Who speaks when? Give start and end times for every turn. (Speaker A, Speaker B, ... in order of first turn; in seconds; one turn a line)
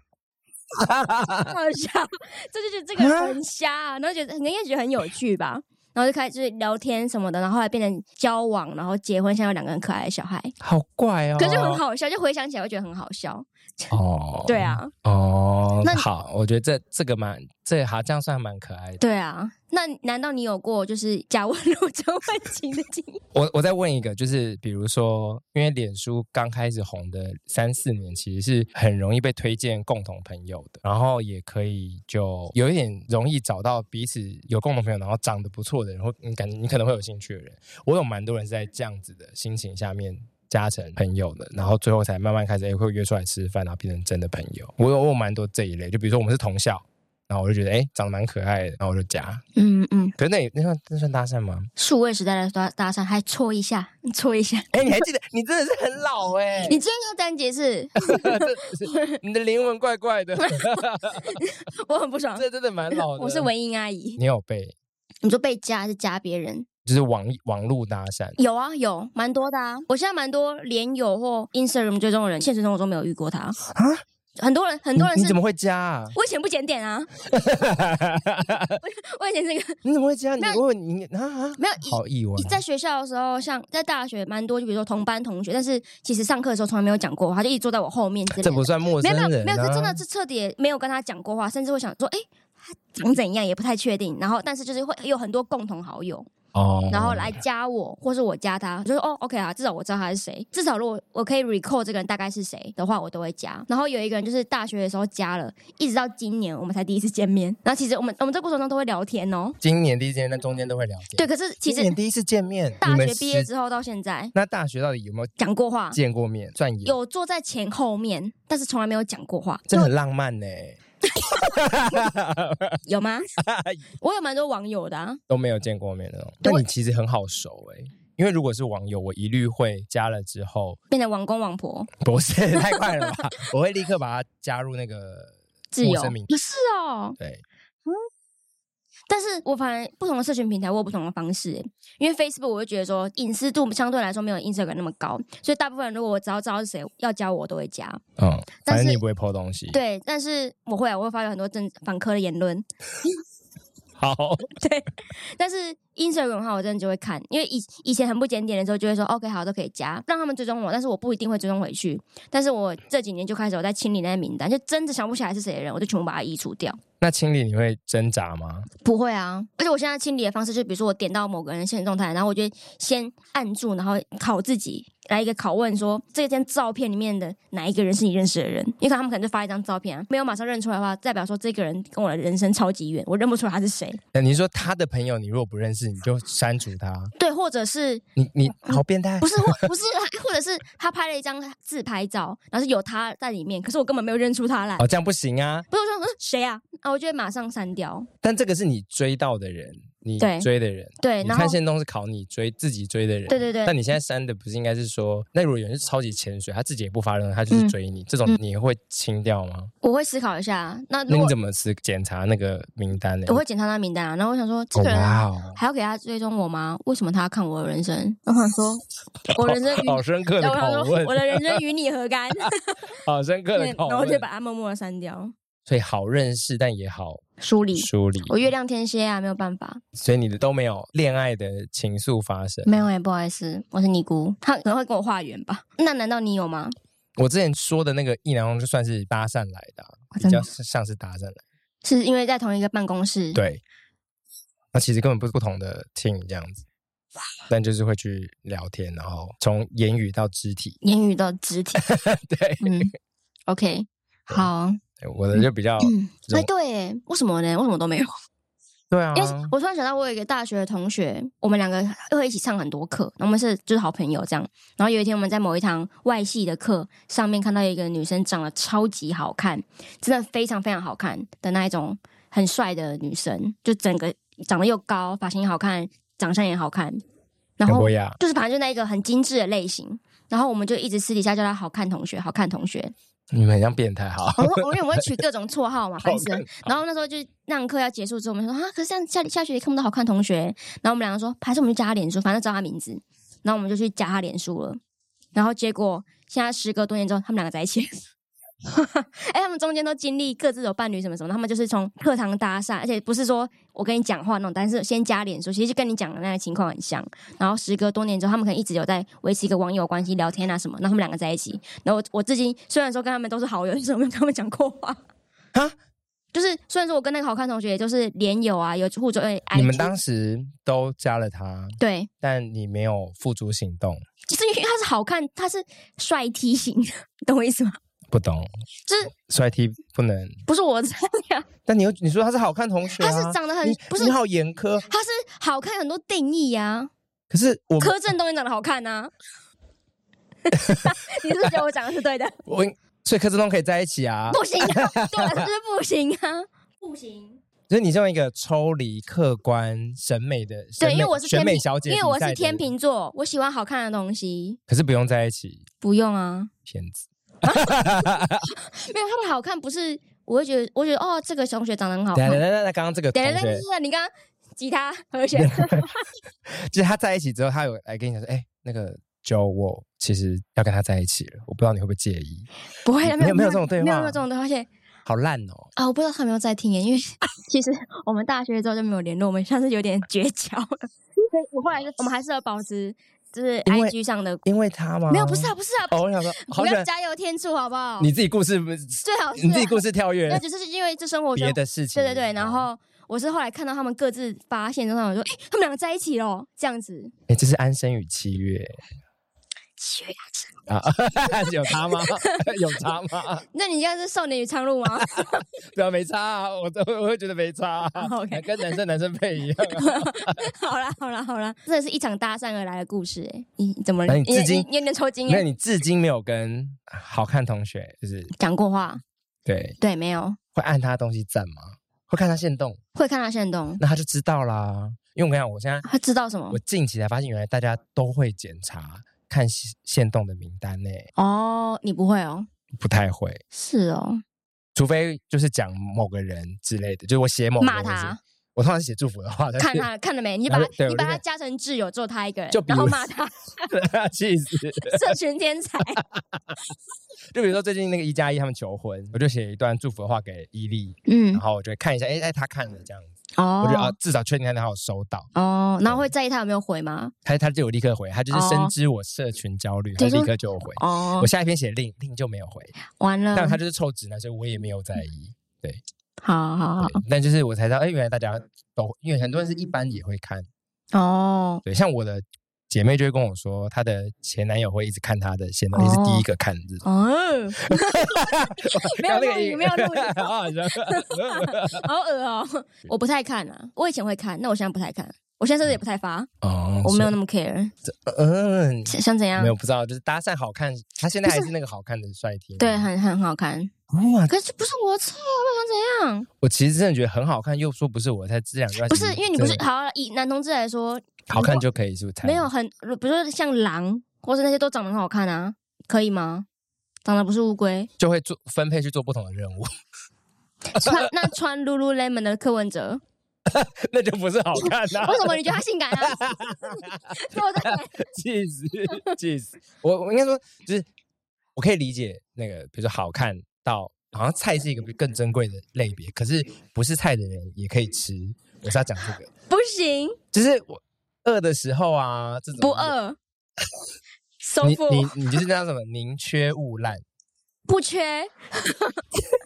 Speaker A: 0.7-1.6
Speaker B: 1.4-10.5
Speaker A: 3.0-3.4
Speaker A: 10.6-11.8
Speaker B: 11.4-13.9
Speaker A: 13.9-19.0
Speaker B: 14.5-14.9
Speaker B: 19.0-23.2
Speaker A: 23.3-49.4
Speaker B: 49.6-50.1
Speaker A: 50.2-51.7
Speaker B: 51.8-55.0
Speaker A: 54.7-56.8
Speaker B: 56.6-59.2
Speaker A: 58.1-61.4
Speaker B: 60.4-64.2
Speaker A: 62.4-63.5
Speaker A: 64.2-64.8
Speaker B: 65.2-66.7
Speaker A: 66.8-68.4
Speaker B: 68.4-73.6
Speaker A: 73.7-74.0
Speaker B: 74.4-75.4
Speaker A: 75.0-76.2
Speaker B: 76.1-77.1
Speaker A: 77.3-78.8
Speaker B: 78.8-79.8
Speaker A: 79.8-82.6
Speaker B: 81.6-96.3
Speaker A: 88.3-90.0
Speaker A: 96.5-97.4
Speaker B: 96.9-109.6
Speaker A: 109.6-113.5
Speaker B: 111.2-111.9
Speaker B: 112.8-114.3
Speaker A: 114.3-115.3
Speaker B: 115.4-116.0
Speaker A: 115.9-117.0
Speaker B: 116.8-119.9
Speaker A: 119.7-122.8
Speaker B: 121.1-121.6
Speaker B: 122.9-123.3
Speaker A: 123.4-123.8
Speaker B: 124.0-125.2
Speaker A: 125.3-130.8
Speaker B: 130.9-131.9
Speaker A: 132.0-136.3
Speaker B: 132.5-133.2
Speaker B: 135.7-137.2
Speaker A: 137.2-137.4
Speaker B: 139.1-148.0
Speaker A: 148.2-149.8
Speaker B: 148.7-149.0
Speaker B: 149.7-152.7
Speaker A: 154.0-154.5
Speaker B: 154.6-166.8
Speaker A: 167.0-168.7
Speaker B: 168.8-184.0
Speaker A: 184.1-187.1
Speaker B: 187.2-194.9
Speaker A: 188.2-189.7
Speaker A: 194.8-195.7
Speaker B: 195.7-198.1
Speaker A: 198.2-209.7
Speaker B: 200.2-200.5
Speaker B: 201.0-201.6
Speaker B: 203.3-203.8
Speaker B: 209.8-211.3
Speaker A: 211.1-213.4
Speaker B: 213.3-222.9
Speaker A: 214.8-215.6
Speaker A: 219.3-221.6
Speaker A: 223.0-224.2
Speaker B: 223.6-225.3
Speaker A: 225.7-227.2
Speaker B: 227.4-229.8
Speaker A: 227.8-228.4
Speaker A: 229.9-232.8
Speaker B: 232.7-236.8
Speaker A: 237.2-241.4
Speaker B: 240.1-240.5
Speaker B: 241.8-243.4
Speaker A: 243.3-243.6
Speaker A: 244.7-246.6
Speaker A: 247.5-250.8
Speaker B: 250.8-251.9
Speaker A: 251.8-252.9
Speaker B: 252.6-252.9
Speaker B: 253.5-254.8
Speaker A: 255.0-256.5
Speaker B: 255.3-258.1
Speaker A: 258.9-259.5
Speaker B: 259.1-277.0
Speaker B: 277.6-282.9
Speaker A: 277.7-278.2
Speaker A: 283.3-285.0
Speaker B: 284.4-294.8
Speaker A: 286.0-286.7
Speaker B: 295.4-298.0
Speaker B: 298.7-315.0
Speaker B: 316.3-319.9
Speaker A: 319.5-324.0
Speaker B: 321.8-322.1
Speaker B: 324.3-327.8
Speaker A: 328.1-328.5
Speaker B: 328.9-329.1
Speaker A: 329.1-330.4
Speaker B: 330.5-331.5
Speaker A: 331.7-334.9
Speaker B: 333.0-334.2
Speaker B: 334.9-336.9
Speaker A: 337.3-338.0
Speaker B: 337.8-339.1
Speaker B: 340.5-342.4
Speaker A: 340.5-341.5
Speaker A: 342.5-345.5
Speaker B: 344.3-347.4
Speaker A: 347.7-352.7
Speaker B: 350.8-354.6
Speaker A: 354.7-355.7
Speaker B: 355.8-356.5
Speaker A: 356.7-358.5
Speaker B: 357.4-357.8
Speaker B: 358.6-362.4
Speaker A: 362.1-363.6
Speaker B: 363.1-366.1
Speaker A: 365.4-365.9
Speaker A: 366.5-372.5
Speaker B: 372.8-374.7
Speaker A: 373.0-374.2
Speaker A: 375.1-375.7
Speaker B: 375.8-384.4
Speaker A: 383.7-386.9
Speaker B: 385.1-388.1
Speaker A: 388.0-390.4
Speaker B: 389.0-397.1
Speaker A: 391.4-392.7
Speaker A: 397.3-398.8
Speaker B: 399.8-400.6
Speaker A: 400.7-403.4
Speaker B: 401.4-402.5
Speaker B: 403.5-405.5
Speaker A: 405.0-410.4
Speaker B: 408.0-408.8
Speaker B: 409.8-415.5
Speaker A: 414.1-414.7
Speaker A: 415.3-418.3
Speaker B: 418.4-419.0
Speaker A: 419.5-419.8
Speaker B: 419.8-420.4
Speaker A: 420.5-422.8
Speaker B: 422.9-423.8
Speaker A: 423.8-425.9
Speaker B: 425.9-426.6
Speaker A: 426.5-431.1
Speaker B: 431.2-432.5
Speaker A: 432.8-433.4
Speaker B: 433.5-434.2
Speaker A: 434.8-439.9
Speaker B: 437.6-438.2
Speaker B: 439.6-443.7
Speaker A: 440.5-441.2
Speaker A: 442.5-443.0
Speaker A: 443.7-445.1
Speaker B: 444.8-446.0
Speaker A: 446.1-446.6
Speaker A: 447.3-455.3
Speaker B: 451.1-451.4
Speaker B: 453.4-453.9
Speaker B: 455.4-457.1
Speaker A: 457.2-462.7
Speaker B: 458.3-458.7
Speaker B: 460.0-461.3
Speaker B: 463.0-463.6
Speaker A: 463.3-465.8
Speaker B: 466.2-467.0
Speaker A: 466.8-470.5
Speaker B: 470.9-471.6
Speaker A: 471.6-476.8
Speaker B: 475.7-476.2
Speaker B: 476.8-486.3
Speaker A: 477.7-481.9
Speaker A: 486.4-487.1
Speaker B: 486.8-487.7
Speaker A: 487.9-492.9
Speaker B: 488.9-489.5
Speaker B: 491.2-491.5
Speaker B: 492.6-493.7
Speaker A: 493.9-494.3
Speaker B: 494.3-496.3
Speaker A: 496.4-499.6
Speaker B: 498.9-501.6
Speaker A: 501.3-502.5
Speaker B: 502.2-506.5
Speaker B: 507.1-507.9
Speaker A: 508.0-509.7
Speaker B: 510.7-513.0
Speaker A: 510.8-511.3
Speaker A: 513.5-520.9
Speaker B: 514.6-518.0
Speaker A: 521.5-529.3
Speaker B: 529.5-530.2
Speaker A: 530.3-533.0
Speaker B: 532.6-533.2
Speaker B: 534.4-535.4
Speaker A: 534.6-537.0
Speaker B: 537.7-539.2